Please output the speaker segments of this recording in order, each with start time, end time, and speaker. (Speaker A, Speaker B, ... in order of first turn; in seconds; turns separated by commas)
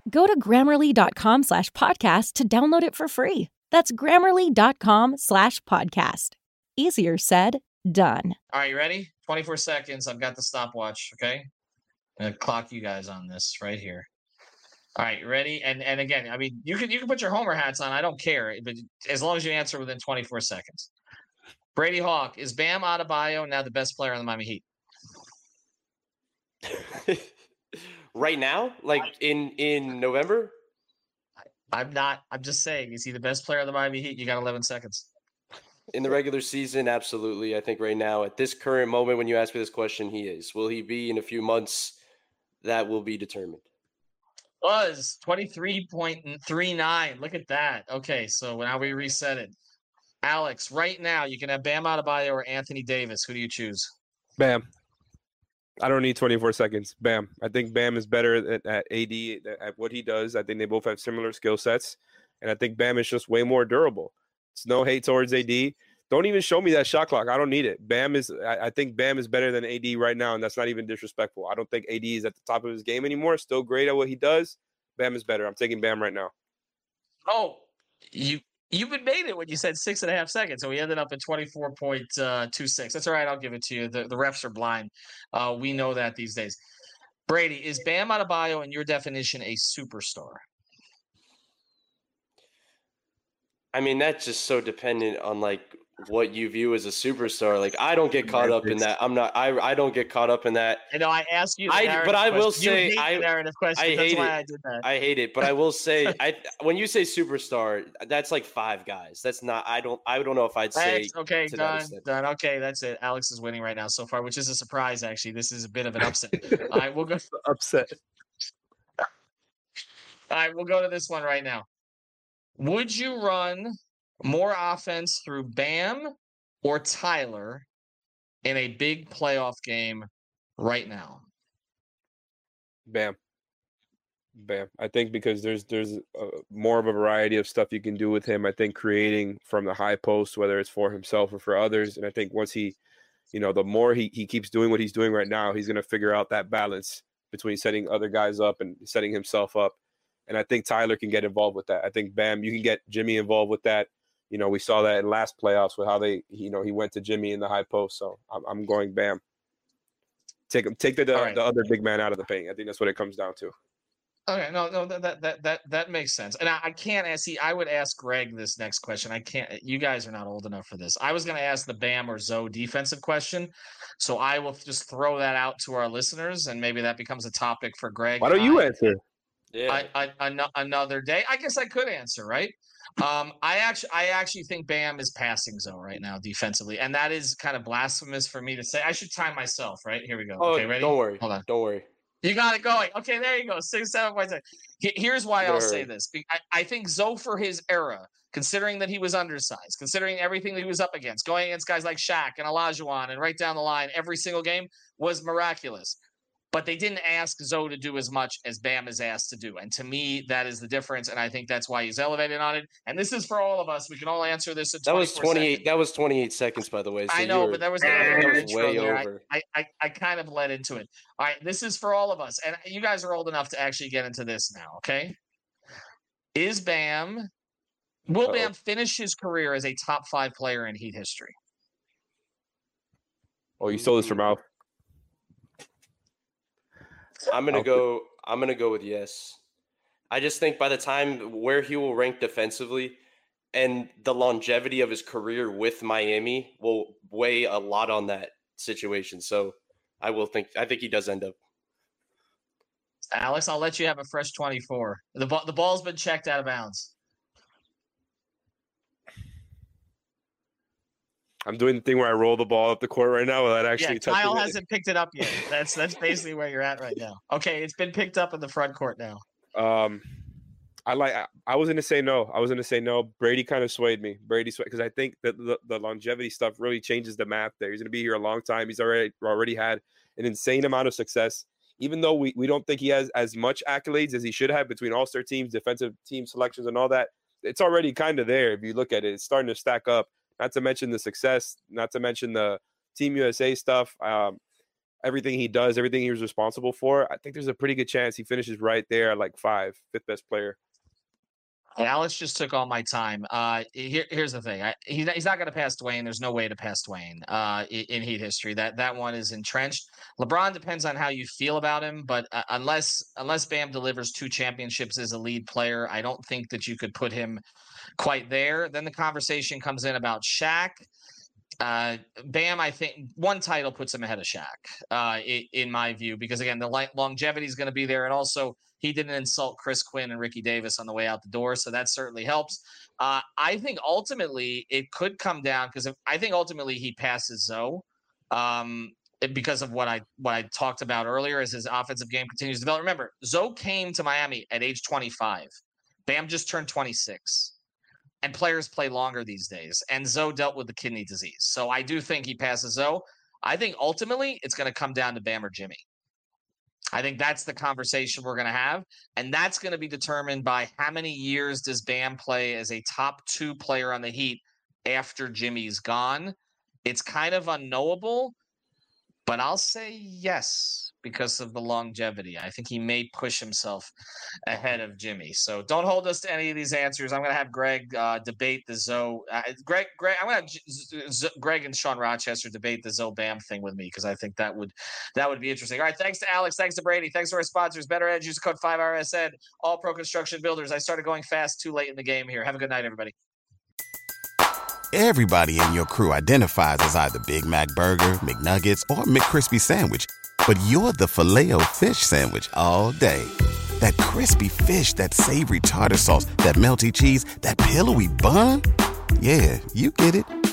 Speaker A: 0.1-8.3, Speaker B: 8.5-11.5, Speaker B: 12.2-14.1, Speaker B: 15.0-20.9, Speaker B: 21.8-24.6, Speaker C: 26.8-27.3, Speaker C: 28.1-30.5, Speaker B: 31.7-35.1, Speaker C: 35.9-42.0, Speaker C: 42.6-43.6, Speaker B: 44.6-49.5, Speaker B: 50.2-53.9, Speaker D: 54.4-54.6, Speaker D: 55.8-76.3, Speaker B: 77.3-86.6, Speaker B: 87.3-90.4, Speaker C: 93.7-100.9, Speaker D: 98.4-98.8, Speaker B: 100.9-104.8, Speaker C: 101.7-112.0, Speaker B: 110.7-117.2, Speaker D: 116.5-116.8, Speaker D: 117.3-118.0, Speaker B: 120.3-121.7, Speaker B: 122.6-126.1, Speaker B: 126.6-127.7, Speaker B: 128.4-130.1, Speaker B: 130.6-131.2, Speaker D: 132.9-133.2, Speaker D: 134.3-142.8, Speaker D: 143.3-149.8, Speaker D: 150.3-159.2, Speaker D: 160.5-163.5, Speaker B: 161.1-161.4, Speaker B: 164.3-178.9, Speaker D: 178.2-179.0, Speaker C: 179.5-179.9, Speaker B: 179.7-191.4, Speaker C: 190.4-191.8, Speaker B: 192.2-206.0, Speaker C: 195.4-195.9, Speaker B: 206.5-215.6, Speaker C: 214.9-219.2, Speaker B: 217.1-225.2, Speaker B: 226.3-227.3, Speaker B: 228.1-231.3, Speaker D: 233.6-234.4, Speaker C: 233.7-234.2, Speaker C: 237.3-239.4, Speaker D: 237.5-237.8, Speaker C: 240.1-243.0, Speaker C: 243.5-251.3, Speaker B: 253.1-256.9, Speaker D: 261.4-264.6, Speaker B: 263.8-269.2, Speaker D: 269.5-270.0, Speaker D: 270.9-294.4, Speaker D: 295.0-300.6, Speaker B: 301.8-317.4, Speaker B: 318.0-320.9, Speaker B: 321.6-345.5, Speaker B: 346.1-347.5, Speaker B: 348.2-355.8, Speaker B: 356.9-368.3, Speaker B: 369.2-373.9, Speaker B: 374.5-393.1, Speaker E: 394.9-408.6, Speaker E: 409.2-410.3